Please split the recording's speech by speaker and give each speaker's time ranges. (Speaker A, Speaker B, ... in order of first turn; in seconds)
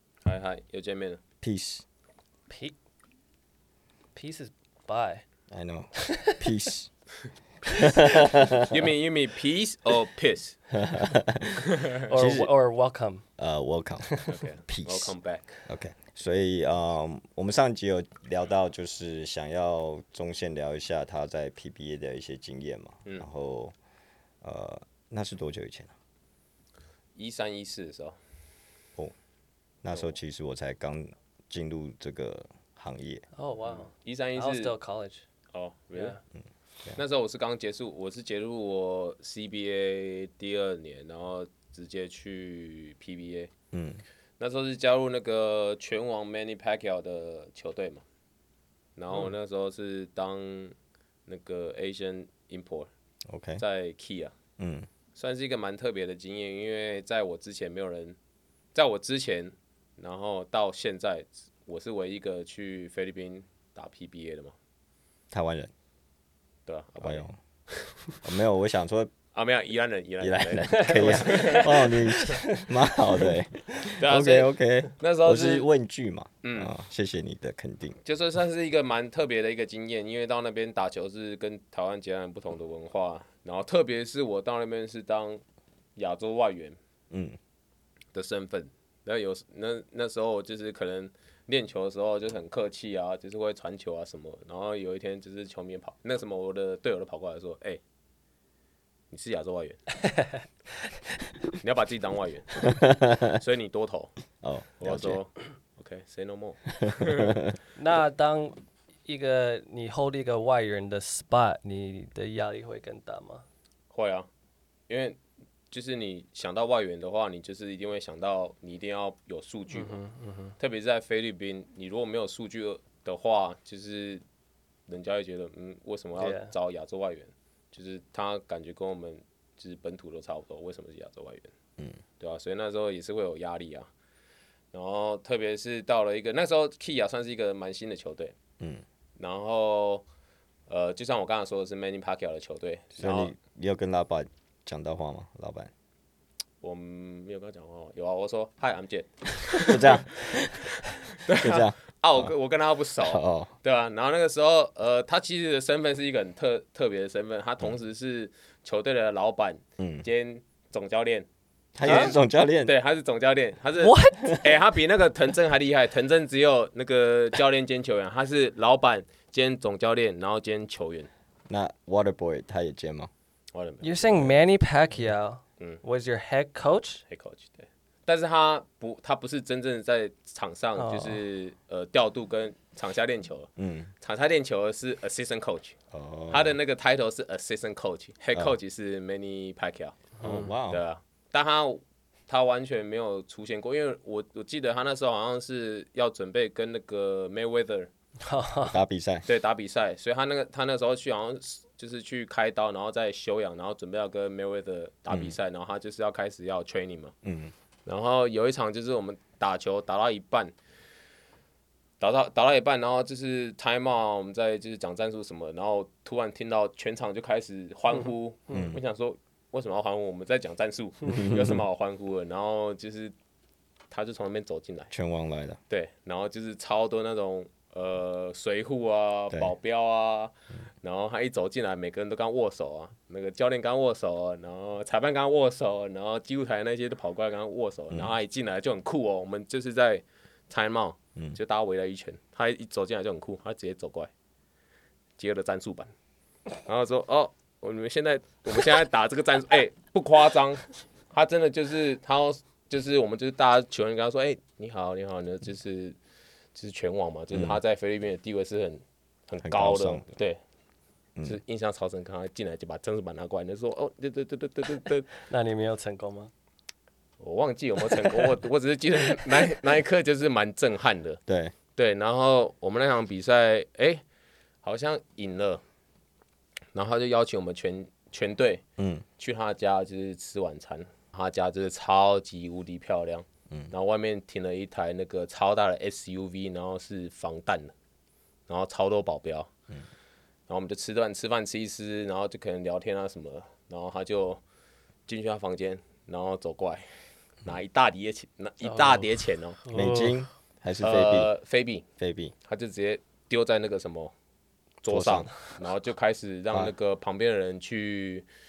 Speaker A: 0.2-1.2, 8.6-10.6, 11.6-12.1, 14.3-15.6, 27.1-28.2, 33.6-34.7, 35.5-36.1, 37.0-43.5, 44.4-48.0, 49.0-50.7, 51.3-52.9, 53.6-54.3, 55.1-58.2, 58.7-64.5, 66.7-67.3, 69.3-71.9, 73.9-75.7, 76.4-76.7, 78.0-85.4, 86.0-86.8, 88.1-97.8, 99.1-99.8, 101.6-104.2, 104.8-107.4, 113.9-114.3, 114.9-115.2, 115.7-120.0, 120.6-124.2, 124.9-131.5, 132.2-133.9, 134.7-138.3, 139.2-140.0, 140.7-143.3, 146.6-150.3, 151.2-161.3, 161.8-171.1, 173.5-174.3, 177.1-185.8, 186.3-197.9, 199.2-207.1, 207.8-210.5, 212.0-223.1, 223.9-224.9, 225.7-244.1, 245.2-245.9, 246.6-256.0, 256.5-260.4, 261.2-265.1, 267.2-271.2, 271.8-274.0, 274.6-275.6, 276.7-278.6, 279.2-287.7, 288.5-289.5, 290.5-294.4, 295.1-296.9, 297.4-299.6, 300.8-301.8, 302.4-304.1, 304.8-308.2
Speaker B: 1.4-1.8, 5.5-6.9, 7.7-8.8, 10.7-12.5, 13.4-15.1, 15.7-23.7, 24.4-25.9, 29.8-33.2, 43.7-44.0, 53.3-53.6, 54.6-54.9, 65.3-65.7, 67.0-67.4, 68.2-69.1, 70.2-78.0, 87.1-87.4, 102.6-103.4, 104.4-105.2, 106.8-107.5, 143.0-145.7, 149.7-150.7, 151.3-152.3, 153.0-153.5, 159.8-160.1, 161.7-162.7, 171.5-173.1, 183.6-183.9, 185.9-186.6, 190.2-190.8, 198.6-199.2, 205.1-205.3, 207.2-207.5, 218.5-218.8, 221.1-221.6, 224.9-225.6, 257.3-257.6, 259.4-260.1, 271.3-271.5, 278.8-279.0, 299.7-301.3, 302.0-302.3, 304.9-305.3
Speaker C: 2.5-2.8, 4.1-5.2, 6.0-6.4, 7.7-7.9, 12.1-13.2, 14.1-14.4, 33.3-35.2, 35.9-36.2, 70.7-71.7, 72.2-72.7, 100.0-100.9, 107.7-113.4, 119.7-120.5, 126.2-126.5, 161.8-162.1, 163.8-164.6, 173.8-177.0, 180.8-181.2, 190.2-190.5, 198.2-198.8, 265.2-266.3, 298.6-299.1, 299.6-300.2